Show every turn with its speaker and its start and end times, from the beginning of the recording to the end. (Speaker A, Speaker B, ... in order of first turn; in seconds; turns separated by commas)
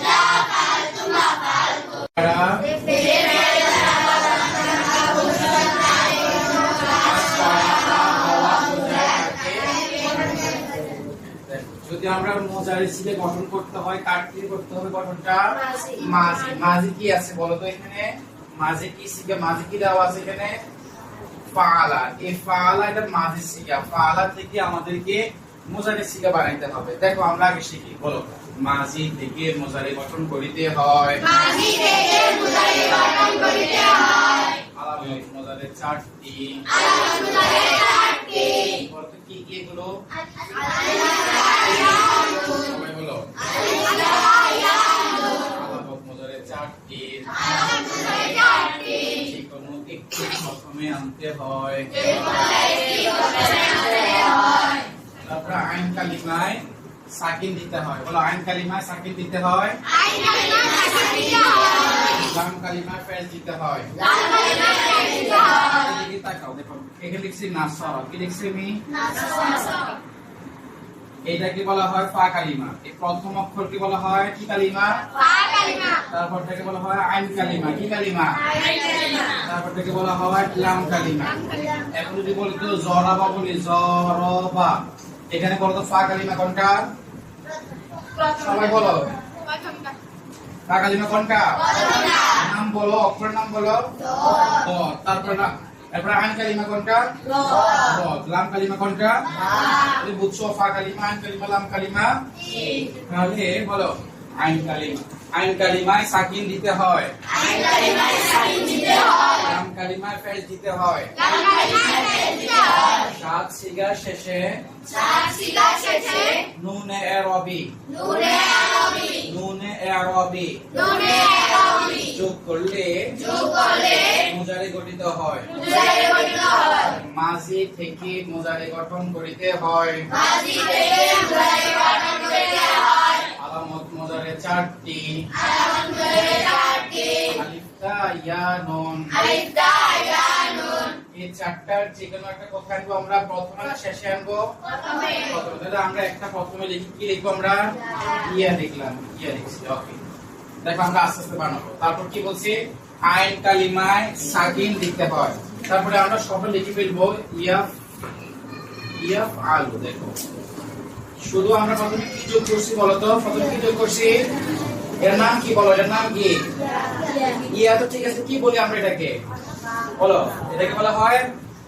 Speaker A: 0.8-1.6, Speaker B: 2.1-2.7, Speaker A: 2.8-3.5, Speaker B: 6.8-20.6, Speaker A: 15.6-15.9, Speaker B: 21.5-31.3, Speaker A: 31.3-34.5, Speaker B: 34.7-36.7, Speaker A: 37.1-38.6, Speaker B: 38.6-40.0, Speaker B: 42.5-43.3, Speaker B: 45.4-47.5, Speaker B: 49.0-52.2, Speaker A: 52.9-54.2, Speaker B: 55.2-59.8, Speaker A: 60.1-61.7, Speaker B: 62.1-63.9, Speaker A: 64.3-65.5, Speaker B: 65.5-68.8, Speaker A: 69.1-69.7, Speaker B: 71.2-75.0, Speaker A: 75.3-76.0, Speaker B: 76.1-78.5, Speaker B: 79.3-84.8, Speaker B: 85.3-86.8, Speaker B: 88.2-89.1, Speaker B: 90.7-107.1, Speaker A: 107.5-109.1, Speaker B: 109.3-111.2, Speaker A: 111.3-112.8, Speaker B: 113.0-114.6, Speaker A: 115.0-116.5, Speaker B: 116.5-117.8, Speaker A: 118.0-119.0, Speaker B: 119.1-120.6, Speaker A: 120.8-121.9, Speaker B: 121.9-123.2, Speaker A: 123.3-124.2, Speaker B: 124.1-125.6, Speaker A: 125.6-126.9, Speaker B: 126.8-130.1, Speaker A: 130.2-133.1, Speaker B: 133.3-135.2, Speaker A: 135.5-137.3, Speaker B: 137.3-139.4, Speaker A: 139.3-140.9, Speaker B: 141.1-144.5, Speaker B: 145.1-150.0, Speaker B: 150.6-157.6, Speaker B: 159.0-160.2, Speaker B: 161.2-164.2, Speaker B: 165.0-166.4, Speaker B: 167.5-169.1, Speaker B: 170.0-171.3